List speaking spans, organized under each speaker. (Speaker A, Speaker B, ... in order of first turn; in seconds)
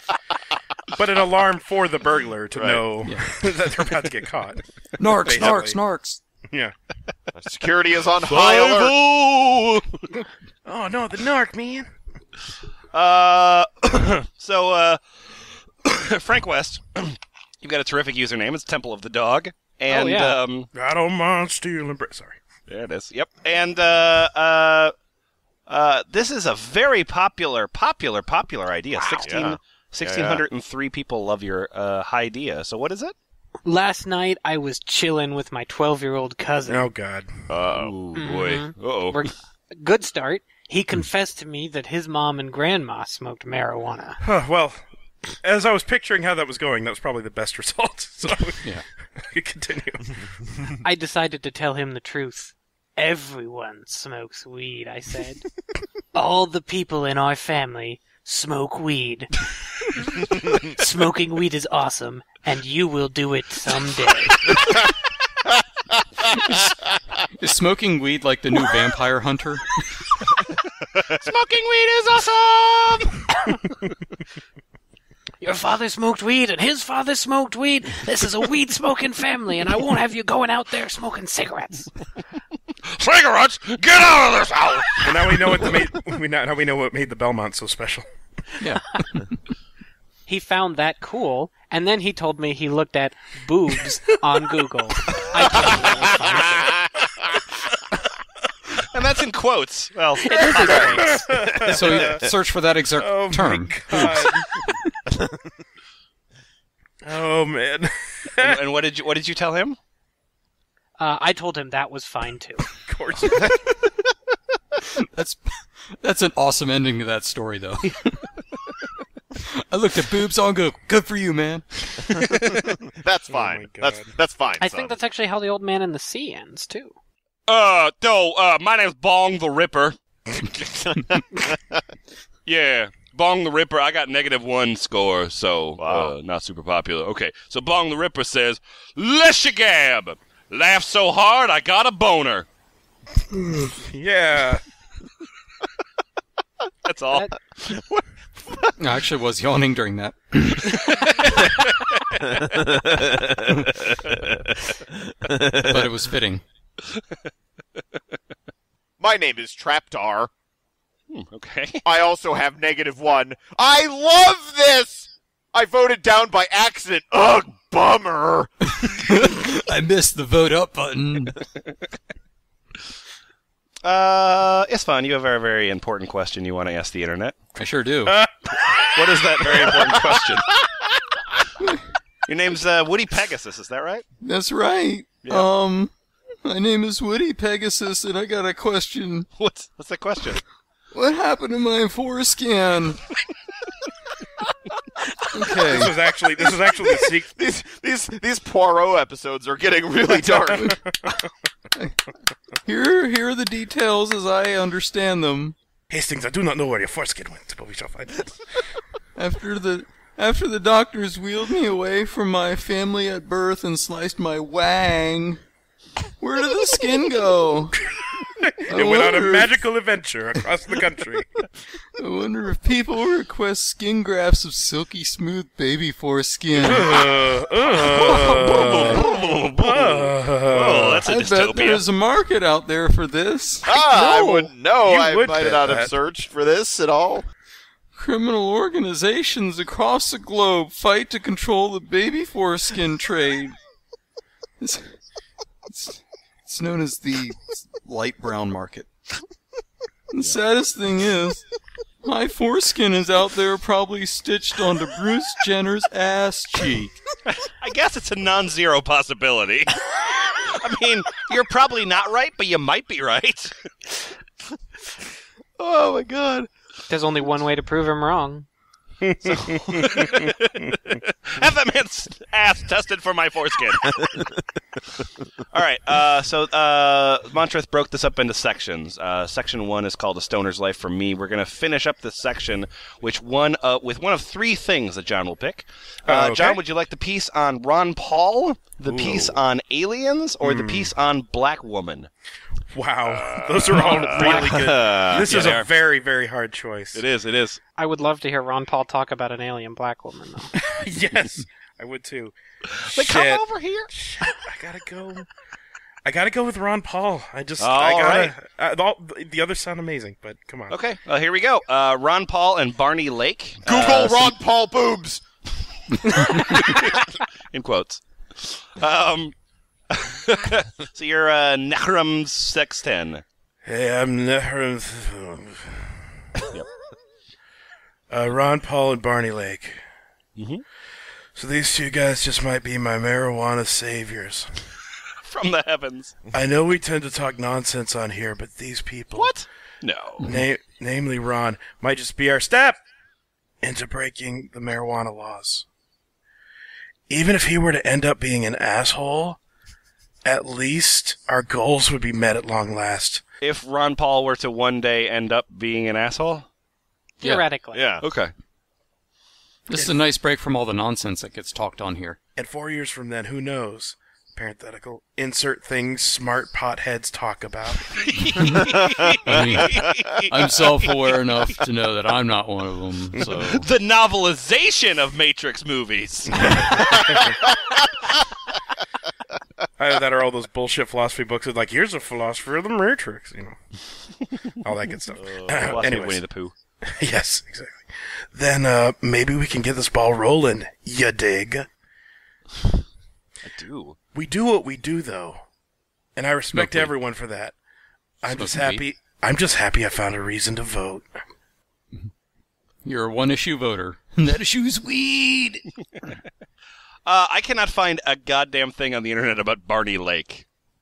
Speaker A: 0.9-5.8, 10.7-11.9, 20.7-22.4, 36.7-37.5, 44.2-44.9, 45.4-50.8, 85.0-88.1, 95.1-96.6, 100.3-102.2, 103.0-104.5, 107.0-108.6, 112.8-113.8, 123.3-124.1, 143.3-144.6, 178.1-180.3, 195.6-197.3, 200.1-201.2, 205.9-208.4, 218.4-221.4, 226.6-231.0, 233.7-235.9, 269.0-270.3, 286.1-286.6, 288.9-289.4, 290.4-290.9, 292.7-297.0, 300.6-302.4, 302.9-305.3, 306.1-310.8, 323.6-325.9, 328.1-329.8, 331.4-334.5, 336.3-339.4, 340.2-342.8, 343.6-345.7, 347.1-349.4, 350.3-353.2, 362.4-368.0, 373.2-373.4, 376.3-377.5, 379.8-383.6, 384.6-386.2, 387.0-391.7, 394.1-395.4, 396.2-397.6, 398.2-401.1
Speaker B: 2.5-2.9, 7.3-9.0, 29.1-30.4, 37.5-37.9, 65.5-66.0, 95.6-97.1, 100.6-102.3, 122.8-125.0, 130.5-131.8, 135.8-136.1, 147.7-148.7, 152.7-153.6, 155.2-155.8, 159.0-160.3, 161.8-168.5, 197.3-200.8, 233.7-237.3, 293.7-295.3, 313.7-315.2, 357.7-358.0
Speaker C: 3.0-3.4, 5.0-6.2, 66.3-70.1, 88.6-89.4, 101.7-104.3, 115.0-118.3, 119.4-122.3, 148.8-150.9, 155.3-156.4, 168.8-171.4, 177.6-178.2, 184.2-185.9, 186.4-189.3, 190.9-193.0, 195.3-195.9, 200.5-200.8, 201.8-202.0, 202.7-205.6, 209.2-215.4, 216.2-217.9, 218.7-219.6, 222.0-227.1, 227.9-229.0, 231.1-233.7, 238.0-243.6, 244.6-245.0, 245.7-248.9, 250.1-251.5, 252.0-257.0, 295.3-295.5, 359.7-362.2, 369.2-373.7, 396.5-396.9, 398.3-398.9, 402.8-405.6
Speaker D: 8.3-10.1, 12.9-15.0, 15.8-20.7, 22.7-24.9, 25.7-33.1, 37.8-39.2, 71.1-73.2, 82.8-85.7, 98.9-101.1, 108.4-109.8, 122.1-122.7, 127.5-130.0, 132.5-142.5, 146.8-147.3, 150.7-152.7, 161.1-161.8, 173.8-177.4, 178.9-180.5, 182.3-184.1, 189.4-190.4, 227.8-231.8, 257.3-259.8, 260.3-263.6, 265.6-266.5, 269.3-274.3, 275.5-292.1, 293.4-294.2, 295.2-295.7, 296.9-297.6, 302.9-303.9, 307.6-308.3, 310.7-314.3, 316.2-319.4, 319.9-323.2, 330.4-330.6, 335.3-336.1, 339.2-340.3, 353.4-356.5, 358.0-358.3, 367.9-371.1, 373.3-377.0, 385.1-386.5, 393.4-394.0, 407.1-410.5
Speaker E: 19.9-20.4, 33.6-36.9, 38.2-44.2, 50.8-55.5, 56.1-59.3, 60.1-64.8, 75.4-81.9, 90.3-96.5, 100.2-101.2, 111.0-112.8, 124.6-127.0, 266.9-268.5, 294.1-294.5, 297.8-300.5, 357.2-357.9